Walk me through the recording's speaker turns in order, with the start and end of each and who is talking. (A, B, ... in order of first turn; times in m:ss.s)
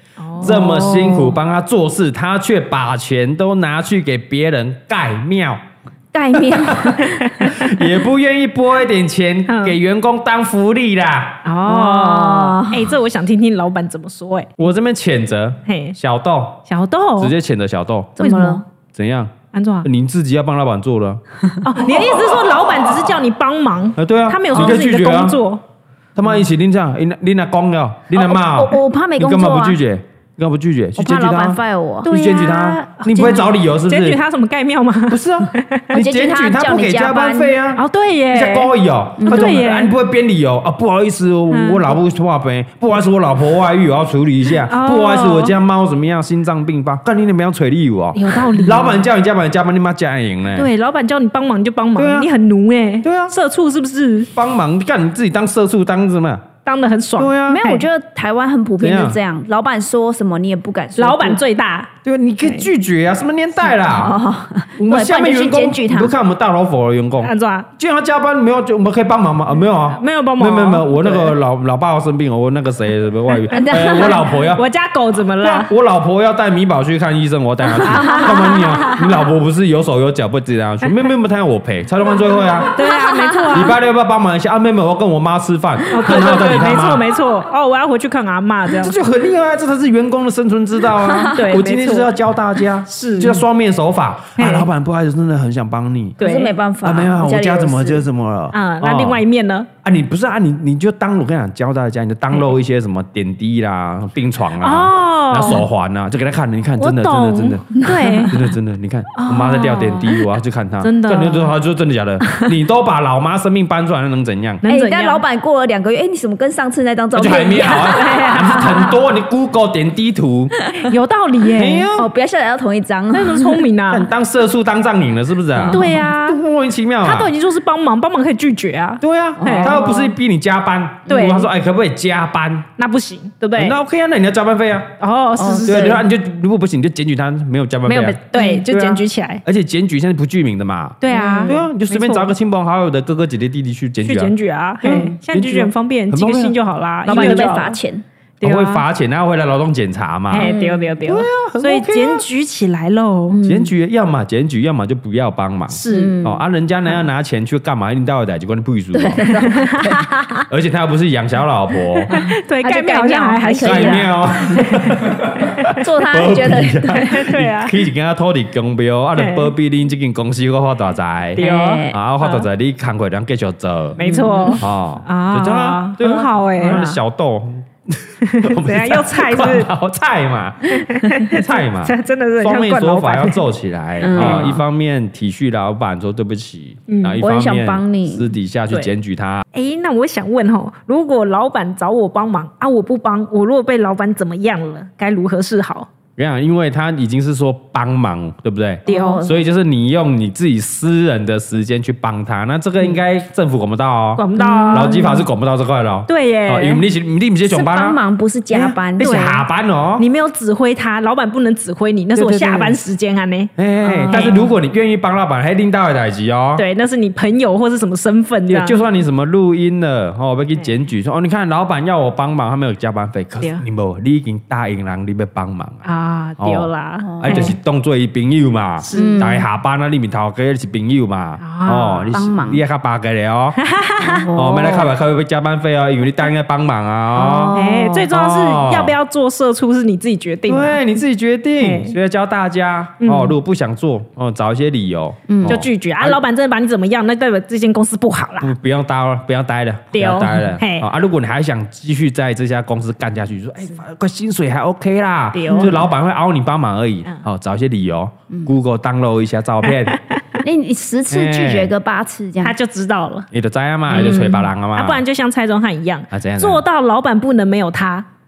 0:00.2-0:01.0 A
0:00.4-0:05.6 B
0:00.4-0:01.4 C
0:06.1-0:07.5 C
0:06.3-0:11.4 B
0:07.0-0:07.7 A
0:09.5-0:09.8 A
0:11.4-0:14.5 A
0:11.7-0:12.9 C
0:14.6-0:16.6 B
0:15.7-0:16.0 A
0:16.7-0:17.3 A
0:17.2-0:18.2 B
0:18.2-0:18.6 C
0:18.2-0:18.6 A
0:18.9-0:19.3 B
0:19.5-0:19.9 A
0:19.8-0:21.2 B
0:21.6-0:25.6 A
0:21.8-0:22.7 B
0:24.0-0:25.4 B
0:26.2-0:34.2 B
0:28.1-0:29.8 C
0:31.0-0:32.1 C
0:32.0-0:35.9 A
0:35.1-0:50.7 B
0:35.9-0:37.6 C
0:37.8-0:38.7 A
0:39.2-0:39.7 C
0:39.3-0:40.0 A
0:41.5-0:42.0 A
0:44.6-0:45.6 A
0:48.2-0:49.1 A
0:50.5-0:54.3 A
0:52.0-0:52.3 B
0:53.0-0:53.4 B
0:54.3-0:56.4 B
0:56.6-0:57.9 A
0:57.2-0:57.6 B
0:57.5-1:01.4 C
0:58.8-0:59.2 B
1:01.0-1:01.9 A
1:02.0-1:04.2 B
1:03.7-1:06.1 C
1:04.8-1:14.6 B
1:07.2-1:07.7 A
1:10.0-1:11.4 A
1:13.5-1:14.4 C
1:13.5-1:15.7 A
1:15.4-1:22.7 B
1:17.8-1:19.0 A
1:18.1-1:18.4 C
1:22.7-1:23.8 A
1:23.0-1:23.4 C
1:23.5-1:27.0 B
1:25.9-1:28.9 A
1:28.8-1:36.2 B
1:31.1-1:31.4 C
1:31.4-1:32.1 A
1:32.9-1:33.4 A
1:34.4-1:34.7 A
1:36.2-1:36.5 A
1:36.2-1:38.0 C
1:36.8-1:39.2 B
1:38.5-1:39.7 A
1:39.8-1:54.6 B
1:44.6-1:45.7 A
1:46.8-1:48.4 A
1:47.8-1:48.3 C
1:49.2-1:50.2 A
1:50.8-1:51.5 A
1:54.6-1:55.2 A
1:54.7-1:58.2 C
1:57.1-2:00.5 B
1:57.4-1:58.9 A
2:00.7-2:01.9 A
2:01.5-2:02.1 B
2:01.9-2:03.7 C
2:03.1-2:04.1 A
2:03.9-2:07.3 B
2:05.6-2:06.0 C
2:05.6-2:06.4 A
2:07.0-2:10.0 A
2:09.0-2:12.7 B
2:09.4-2:10.1 C
2:11.1-2:11.5 A
2:12.8-2:13.8 A
2:13.6-2:14.9 B
2:15.0-2:16.0 A
2:15.4-2:16.0 C
2:15.7-2:24.3 B
2:17.9-2:19.4 A
2:18.4-2:18.6 C
2:21.0-2:22.3 A
2:21.1-2:21.6 C
2:24.0-2:27.8 A
2:24.8-2:25.2 C
2:25.3-2:27.5 B
2:27.1-2:28.0 C
2:28.4-2:28.8 A
2:28.4-2:30.5 B
2:30.3-2:33.4 A
2:30.3-2:31.0 C
2:31.1-2:32.2 B
2:33.3-2:33.7 C
2:33.4-2:39.2 B
2:35.7-2:36.2 A
2:35.9-2:36.4 C
2:38.9-2:40.1 C
2:39.2-2:40.4 A
2:40.5-2:42.1 B
2:42.1-2:44.1 C
2:42.1-2:44.9 A
2:43.6-2:54.0 B
2:45.7-2:47.0 C
2:47.0-2:47.7 A
2:49.2-2:49.5 A
2:51.4-2:52.5 A
2:51.4-2:52.0 C
2:54.0-2:57.0 A
2:54.0-2:54.6 C
2:54.6-3:09.4 B
2:58.2-2:59.7 A
3:00.7-3:03.4 A
3:04.0-3:04.6 C
3:04.0-3:04.5 A
3:06.9-3:07.2 A
3:07.2-3:08.3 C
3:09.5-3:15.9 A
3:16.2-3:28.0 B
3:18.9-3:19.2 A
3:18.9-3:19.4 C
3:24.2-3:25.0 A
3:24.4-3:25.2 C
3:26.1-3:26.8 A
3:27.4-3:29.1 C
3:28.5-3:30.1 B
3:29.0-3:29.4 A
3:30.0-3:34.4 A
3:32.2-3:32.8 B
3:33.6-3:36.6 B
3:33.9-3:34.3 C
3:36.6-3:38.8 A
3:38.5-3:45.8 B
3:45.8-3:47.6 A
3:46.4-3:53.6 B
3:47.0-3:47.5 C
3:48.8-3:49.3 A
3:48.9-3:49.4 C
3:51.4-3:52.1 A
3:52.1-3:52.6 C
3:53.6-3:54.3 A
3:54.1-3:54.9 C
3:54.3-3:57.6 B
3:57.1-3:58.0 C
3:57.6-4:00.8 A
3:58.1-3:59.0 B
4:00.5-4:06.2 B
4:01.6-4:02.0 A
4:03.0-4:03.4 A
4:05.3-4:05.6 C
4:05.5-4:08.5 A
4:08.4-4:20.0 B
4:09.9-4:10.9 A
4:15.3-4:15.7 A
4:20.4-4:22.6 C
4:21.1-4:21.7 B
4:22.4-4:23.3 A
4:23.3-4:25.0 B
4:23.9-4:24.5 C
4:23.9-4:28.1 A
4:26.1-4:26.6 B